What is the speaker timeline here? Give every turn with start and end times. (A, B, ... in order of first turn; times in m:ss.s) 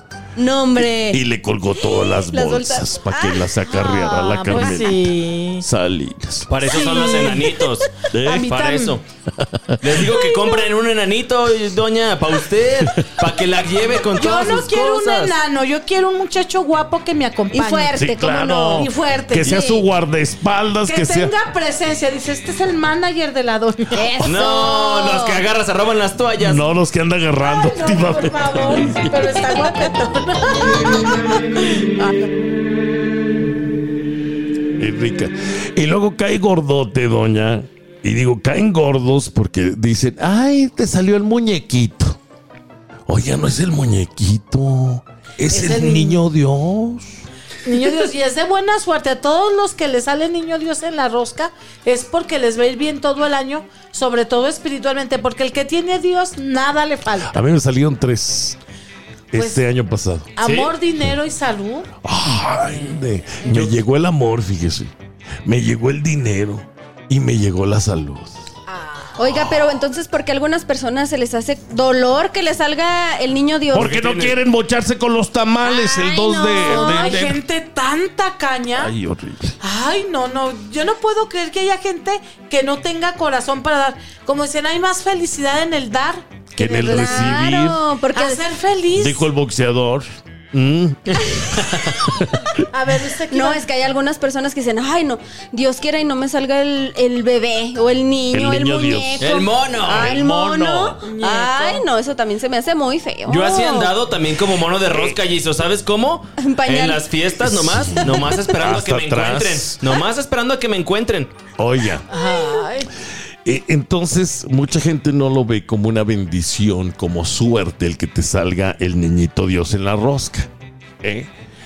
0:00.4-0:01.2 A
0:00.8-0:06.5 B
0:01.8-0:03.6 A
0:03.7-0:05.6 C
0:04.5-0:04.9 A
0:06.5-0:09.0 D
0:06.7-0:07.6 C
0:08.1-0:08.6 B
0:08.2-0:09.0 C
0:09.3-0:10.2 B
0:09.8-0:15.4 D
0:10.2-0:10.5 A
0:12.8-0:13.2 B
0:14.2-0:19.8 C
0:17.5-0:18.9 A
0:18.0-0:21.3 B
0:19.5-0:19.8 A
0:20.8-0:24.4 C
0:23.9-0:25.4 A
0:24.2-0:26.7 D
0:26.4-0:29.6 B
0:27.4-0:32.2 C
0:34.8-0:42.2 B
0:43.1-0:47.2 B
0:45.5-0:46.2 C
0:47.6-0:57.4 C
0:57.3-0:58.6 B
0:59.3-1:00.3 B
0:59.3-0:59.6 C
1:00.4-1:01.9 C
1:00.4-1:00.7 D
1:02.0-1:04.9 B
1:02.5-1:03.7 C
1:05.4-1:08.3 B
1:08.7-1:09.2 C
1:09.2-1:14.0 A
1:09.3-1:09.7 B
1:13.7-1:17.4 B
1:13.8-1:14.4 D
1:15.6-1:17.1 A
1:16.6-1:18.9 C
1:18.7-1:19.6 B
1:19.6-1:29.3 C
1:26.6-1:27.8 B
1:26.7-1:28.4 A
1:28.9-1:31.5 B
1:31.1-1:32.2 D
1:32.7-1:33.6 C
1:33.3-1:43.9 A
1:38.3-1:41.0 B
1:39.2-1:40.2 D
1:41.0-1:41.9 C
1:43.3-1:51.3 D
1:44.9-1:45.2 B
1:46.4-1:47.1 A
1:47.4-1:49.8 B
1:47.8-1:48.3 A
1:51.6-1:52.0 B
1:52.1-1:52.9 C
1:53.4-2:00.5 B
2:01.0-2:01.3 B